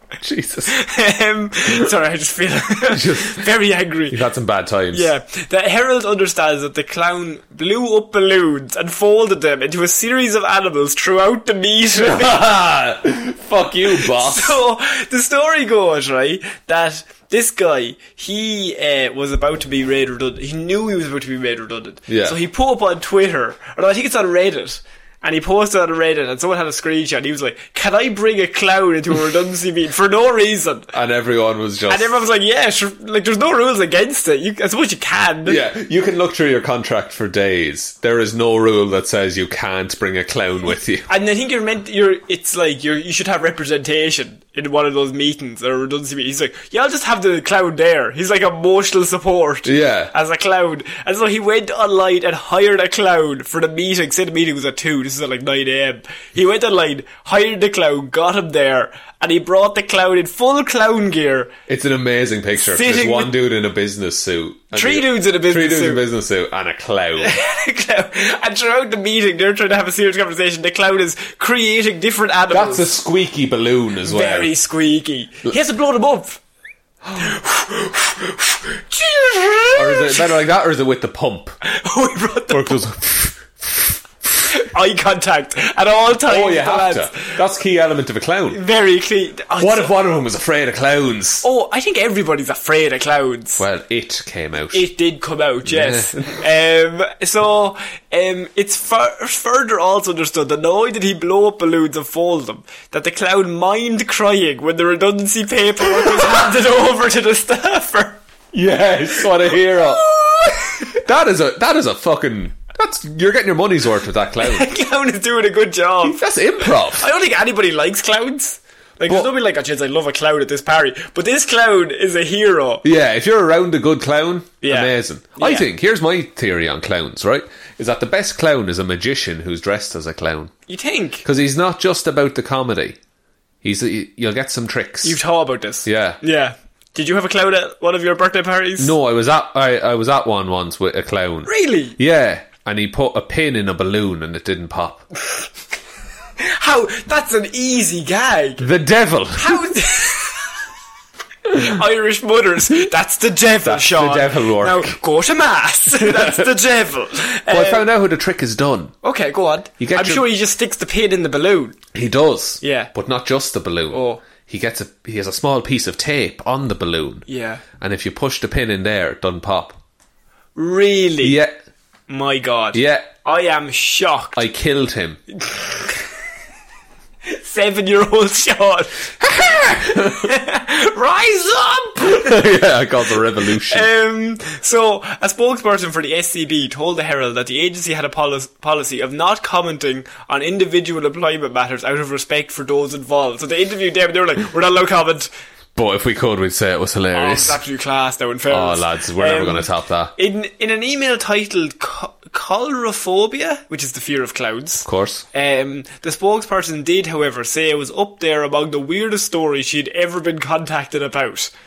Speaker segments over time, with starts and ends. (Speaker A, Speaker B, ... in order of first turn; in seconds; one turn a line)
Speaker A: 0.2-0.8
Speaker B: 0.7-4.2
Speaker A: 2.9-3.5
Speaker A: 4.1-5.1
Speaker B: 4.9-12.5
Speaker A: 11.9-14.6
Speaker B: 13.9-30.9
Speaker A: 22.1-22.4
Speaker A: 30.9-32.2
Speaker B: 31.9-35.6
Speaker A: 35.4-41.1
Speaker B: 41.1-61.5
Speaker A: 49.6-50.1
Speaker A: 61.7-67.4
Speaker B: 62.6-63.4
Speaker B: 64.7-66.0
Speaker B: 67.2-72.9
Speaker A: 72.5-74.5
Speaker B: 74.0-76.4
Speaker B: 77.2-80.3
Speaker A: 79.8-81.6
Speaker B: 81.7-82.8
Speaker A: 82.5-84.0
Speaker B: 84.5-87.4
Speaker A: 86.2-88.6
Speaker B: 88.5-89.9
Speaker A: 89.6-91.5
Speaker B: 91.4-93.6
Speaker A: 93.6-94.9
Speaker B: 94.7-108.2
Speaker A: 95.6-96.4
Speaker A: 105.8-106.5
Speaker A: 108.5-110.0
Speaker B: 109.5-111.0
Speaker A: 111.0-114.7
Speaker B: 114.4-122.8
Speaker A: 116.0-117.1
Speaker A: 119.0-119.3
Speaker A: 122.8-130.5
Speaker B: 124.6-125.7
Speaker B: 130.7-131.2
Speaker A: 131.2-133.0
Speaker A: 133.6-135.2
Speaker B: 135.0-138.9
Speaker A: 135.8-136.2
Speaker A: 138.8-145.0
Speaker B: 141.4-142.0
Speaker B: 146.4-148.7
Speaker A: 148.6-149.8
Speaker B: 149.3-150.5
Speaker B: 151.5-157.9
Speaker A: 153.6-155.0
Speaker A: 156.0-156.5
Speaker A: 157.5-158.9
Speaker B: 159.0-161.8
Speaker A: 159.8-160.3
Speaker A: 161.9-167.2
Speaker B: 162.6-162.9
Speaker B: 163.9-164.2
Speaker B: 167.3-167.6
Speaker A: 167.8-169.8
Speaker B: 170.6-171.4
Speaker A: 171.2-171.6
Speaker B: 172.1-174.4
Speaker A: 172.7-173.1
Speaker A: 174.3-175.2
Speaker B: 175.3-176.0
Speaker B: 177.2-179.1
Speaker A: 179.2-180.3
Speaker B: 179.9-182.4
Speaker A: 182.0-183.9
Speaker B: 183.5-195.3
Speaker A: 195.7-197.6
Speaker B: 197.1-211.5
Speaker A: 198.5-200.1
Speaker A: 204.8-205.2